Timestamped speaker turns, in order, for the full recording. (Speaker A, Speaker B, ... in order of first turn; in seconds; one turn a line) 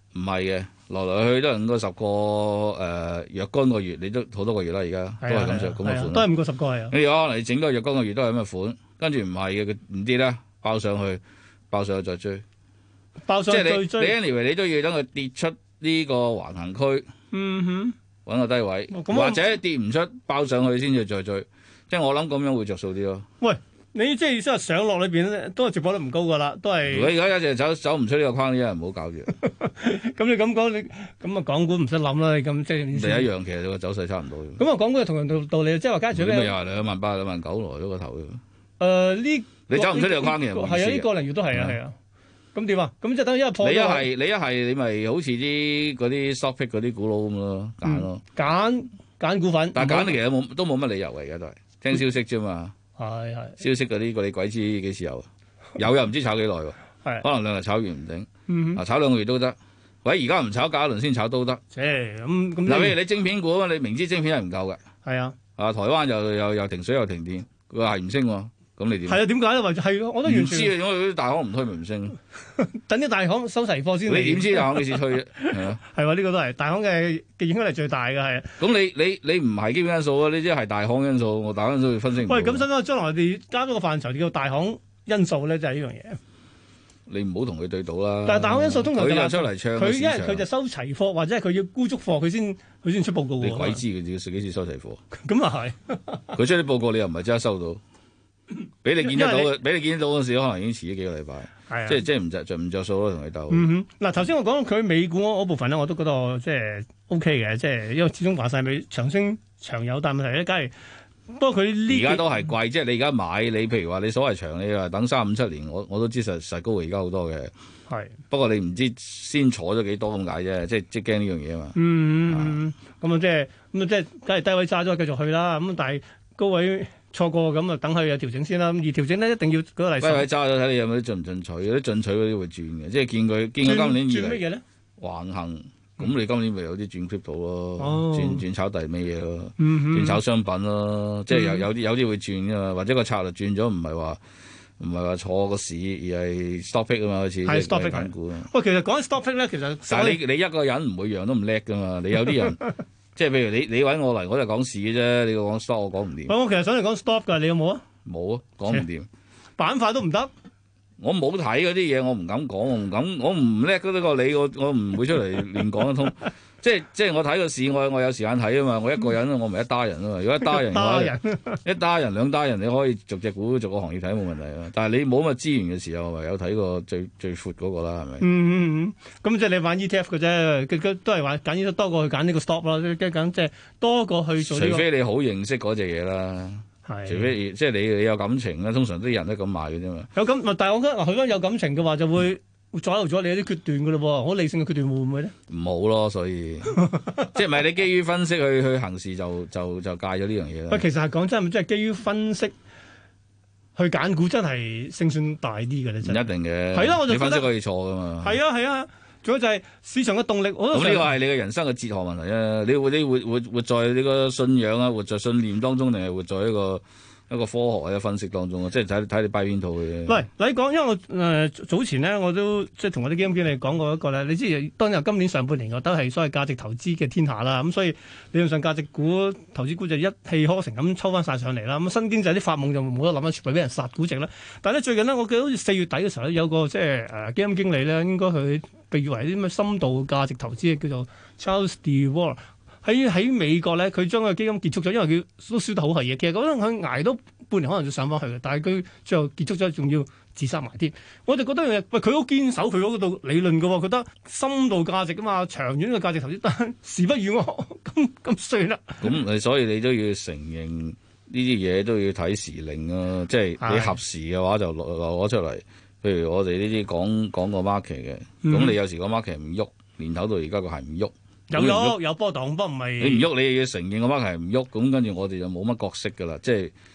Speaker A: 0.1-6.3
Speaker B: 5.2-6.9
Speaker A: 6.9-12.4
Speaker B: 13.2-14.2
Speaker A: 13.5-17.1
Speaker B: 17.3-18.0
Speaker A: 18.3-23.3
Speaker B: 18.9-19.4
Speaker B: 23.4-27.1
Speaker A: 26.9-29.3
Speaker B: 29.4-33.3
Speaker A: 32.9-34.6
Speaker B: 34.6-36.5
Speaker A: 36.1-38.4
Speaker B: 38.8-42.0
Speaker A: 39.7-41.8
Speaker B: 42.5-44.1
Speaker A: 43.6-48.2
Speaker B: 47.9-50.2
Speaker A: 49.8-52.7
Speaker B: 53.0-53.6
Speaker A: 53.6-61.6
Speaker B: 58.5-58.8
Speaker B: 61.7-63.0
Speaker A: 62.7-64.8
Speaker B: 65.0-65.4
Speaker A: 65.6-69.2
Speaker B: 69.1-70.8
Speaker A: 70.2-72.2
Speaker B: 72.6-78.5
Speaker A: 74.1-75.8
Speaker A: 78.6-82.7
Speaker B: 82.2-86.2
Speaker A: 87.1-90.5
Speaker B: 88.2-93.8
Speaker A: 93.4-95.0
Speaker B: 95.2-96.4
Speaker A: 96.3-97.8
Speaker A: 98.8-103.7
Speaker B: 99.0-99.5
Speaker B: 101.7-102.0
Speaker B: 103.5-110.7
Speaker B: 111.3-112.4
Speaker A: 111.9-117.5
Speaker B: 117.9-118.2
Speaker A: 118.3-122.6
Speaker B: 121.8-130.3
Speaker A: 130.0-134.4
Speaker B: 133.6-134.6
Speaker A: 135.0-144.2
Speaker B: 137.8-138.4
Speaker B: 139.6-140.2
Speaker B: 141.3-141.7
Speaker A: 144.8-148.5
Speaker B: 147.4-150.2
Speaker A: 149.9-152.6
Speaker A: 153.2-156.3
Speaker B: 156.3-157.8
Speaker A: 158.1-159.1
Speaker B: 159.6-160.3
Speaker A: 161.0-178.3
Speaker B: 170.4-171.6
Speaker B: 178.2-184.9
Speaker A: 184.4-190.1
Speaker B: 186.8-187.3
Speaker B: 190.2-195.3
Speaker A: 195.5-200.9
Speaker B: 200.7-202.6
Speaker B: 203.8-207.5
Speaker A: 206.0-208.4
Speaker B: 208.2-211.1
Speaker A: 210.7-220.2
Speaker B: 220.1-259.1
Speaker A: 259.0-272.0
Speaker B: 263.6-264.0
Speaker B: 268.4-268.8
Speaker B: 271.5-273.3
Speaker A: 273.0-276.7